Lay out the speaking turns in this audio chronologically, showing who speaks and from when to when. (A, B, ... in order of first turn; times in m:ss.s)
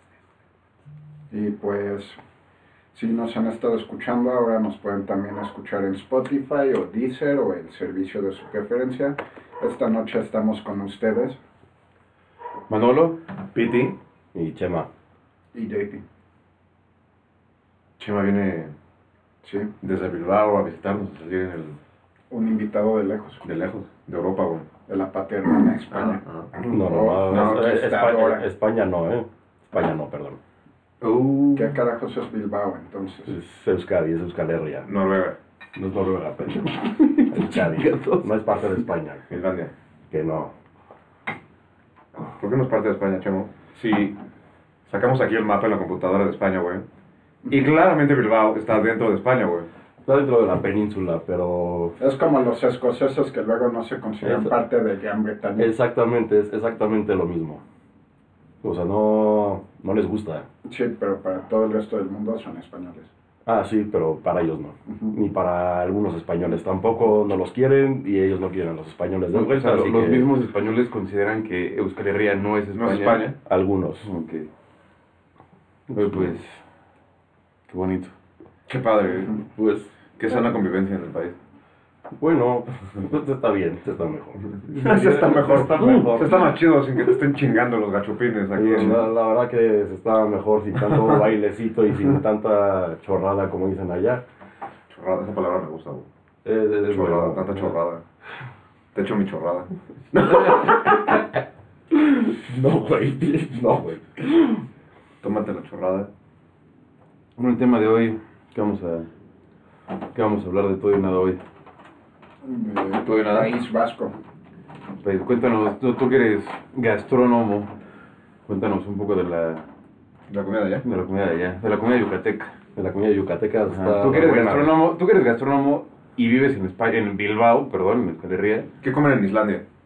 0:01.3-0:02.2 A
0:02.9-0:11.4 A
0:12.7-0:13.2 B
0:13.5-0:13.9 C
0:14.3-0:14.9 D
0:15.5-0:16.0 A
0:18.0-0:18.7 C
0:19.4-0:19.7 A
0:19.8-0:21.8 C
0:22.3-0:23.4 A
0:23.4-0:24.7 C
0:24.9-0:28.4 A
0:25.9-0:26.5 C
0:26.6-0:30.4 D
0:27.3-0:27.7 C
0:31.0-0:31.7 C
0:31.5-0:33.3 A
0:33.3-0:34.9 D
0:34.8-0:35.4 C
0:35.7-0:39.2 D
0:36.9-0:38.3 B
0:39.3-0:39.7 C
0:40.1-0:40.5 D
0:42.3-0:44.2 C
0:44.9-0:46.9 C
0:47.5-0:49.7 C
0:50.0-0:52.0 D
0:52.0-0:55.7 A
0:54.2-0:54.5 D
0:55.6-0:57.6 D
0:58.6-1:00.5 D
1:00.6-1:03.1 A
1:03.4-1:10.3 D
1:04.9-1:05.1 A
1:09.3-1:13.2 B
1:12.7-1:13.4 C
1:13.4-1:14.1 D
1:14.0-1:14.5 B
1:15.9-1:16.3 D
1:15.9-1:16.6 B
1:17.7-1:18.1 B
1:18.7-1:19.3 C
1:19.5-1:19.9 D
1:20.2-1:21.4 C
1:22.2-1:26.6 D
1:24.7-1:29.0 C
1:28.5-1:34.2 D
1:30.9-1:31.2 C
1:34.9-1:36.0 C
1:36.4-1:37.8 D
1:36.9-1:38.0 C
1:38.9-1:39.7 C
1:40.1-1:41.3 D
1:41.9-1:44.6 D
1:45.2-1:46.1 C
1:47.4-1:49.1 B
1:50.1-1:51.4 B
1:52.4-1:54.1 A
1:53.0-1:53.6 C
1:55.0-1:57.7 B
1:58.5-1:59.6 B
2:00.3-2:00.8 C
2:00.8-2:02.5 B
2:02.7-2:04.8 D
2:03.7-2:08.7 B
2:08.8-2:09.6 C